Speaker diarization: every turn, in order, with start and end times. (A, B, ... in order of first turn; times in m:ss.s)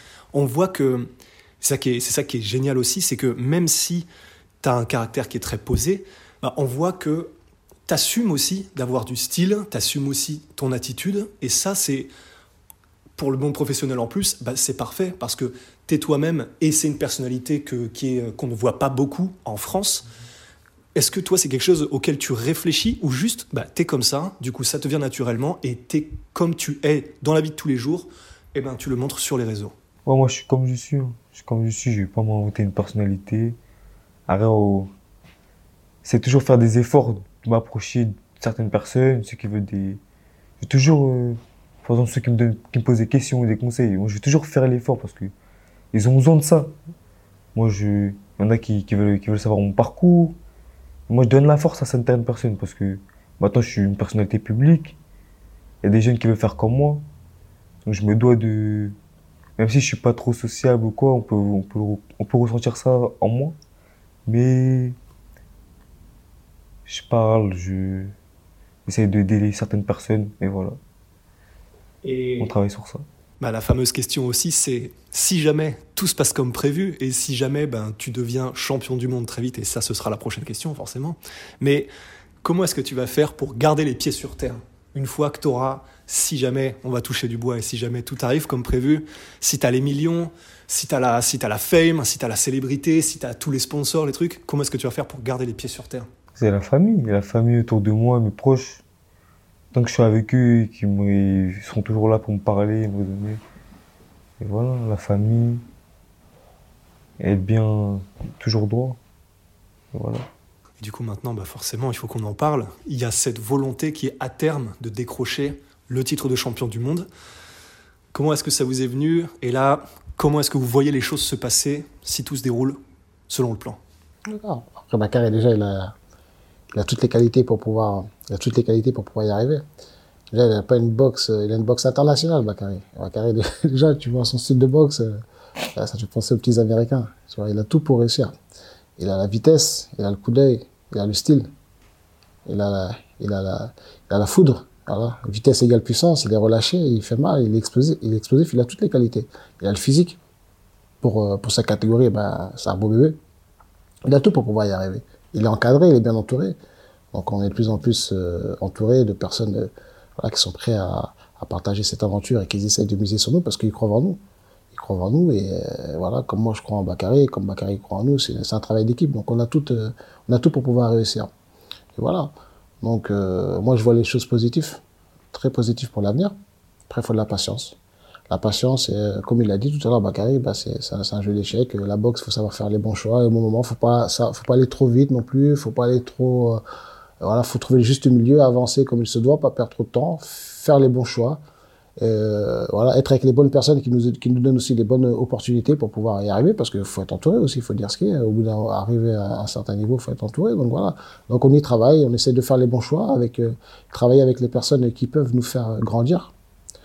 0:00.3-0:01.1 A
0:01.6-0:04.1 A
0:04.6-0:07.3 A
0:07.9-0:12.1 A
0:13.2-0:20.0 A
0:20.9-0:29.7 A
0:30.0-0:33.6 B
0:34.3-0:34.9 B
0:36.0-0:40.0 B
0:40.6-0:45.3 B
0:45.9-0:46.7 B
0:47.5-0:50.4 B
0:51.1-0:55.0 B
0:55.8-0:57.0 B
0:57.8-0:59.0 B
0:59.6-1:03.6 B
1:04.2-1:05.0 B
1:06.8-1:08.1 B
1:08.8-1:10.8 B
1:12.0-1:12.5 A
1:12.4-1:13.0 B
1:13.4-1:21.9 A
1:22.4-1:36.1 A
1:36.3-1:38.8 B
1:39.7-1:43.4 B
1:44.4-1:45.6 B
1:47.2-1:49.0 B
1:49.9-1:50.3 B
1:50.8-1:57.1 A
1:58.1-2:03.8 A
2:04.3-2:05.9 C
2:06.7-2:09.6 C
2:10.3-2:15.2 C
2:15.8-2:18.3 C
2:19.0-2:21.5 C
2:22.5-2:30.2 C
2:31.0-2:33.2 C
2:34.0-2:36.6 C
2:37.1-2:44.2 C
2:44.7-2:51.3 C
2:52.0-2:52.3 C
2:52.8-2:54.8 C
2:55.3-2:56.3 C
2:56.9-2:57.8 C
2:58.3-3:06.6 C
3:07.2-3:11.4 C
3:12.0-3:26.3 C